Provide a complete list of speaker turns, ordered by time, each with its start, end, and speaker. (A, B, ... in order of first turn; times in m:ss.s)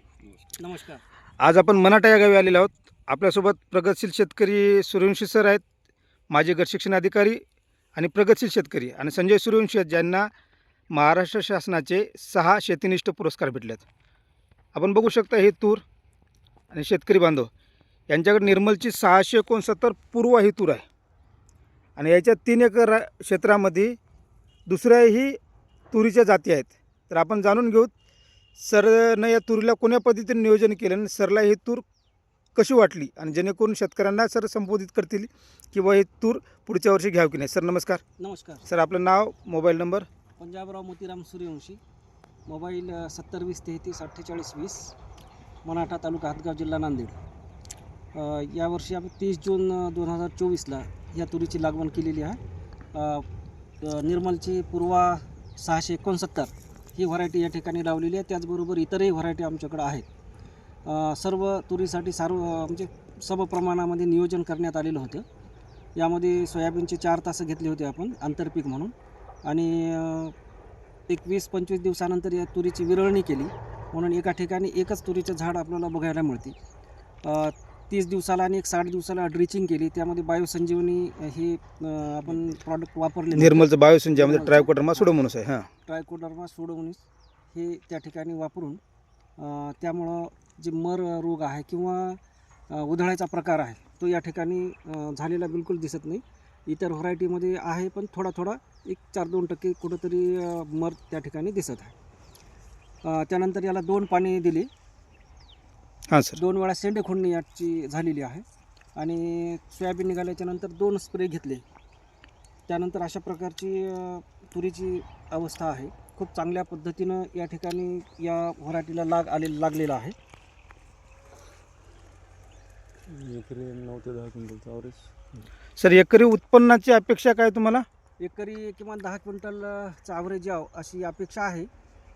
0:00.6-0:01.0 A
0:01.4-0:05.6 B
0:06.3-0:07.4 B
0:08.0-0:10.3 B
0:10.9-0:13.8 B
0:14.7-0:15.8 B
0:16.7-0:17.5 B
0:18.1-0:20.8 B
0:22.0-0:24.0 B
0:24.6-0:25.4 B
0:25.9-0:27.9 B
0:28.6-0:31.8 B
0:32.5-0:38.0 B
0:38.2-0:38.6 A
0:38.6-0:40.1 B
0:40.4-0:41.8 A
0:42.5-0:44.9 A
0:45.6-0:47.2 A
0:48.1-0:52.4 A
0:52.9-0:53.2 A
0:53.8-1:00.0 A
1:00.8-1:05.2 A
1:06.0-1:08.9 A
1:09.4-1:10.3 A
1:11.1-1:16.5 A
1:17.2-1:25.1 A
1:23.3-1:25.7 B
1:25.9-1:28.8 A
1:29.4-1:41.9 A
1:43.0-1:44.7 A
1:46.1-1:46.4 B
1:46.4-1:48.4 A
1:49.0-1:51.6 A
1:52.7-2:00.1 A
2:03.1-2:05.1 C
2:05.8-2:07.8 B
2:08.2-2:11.7 A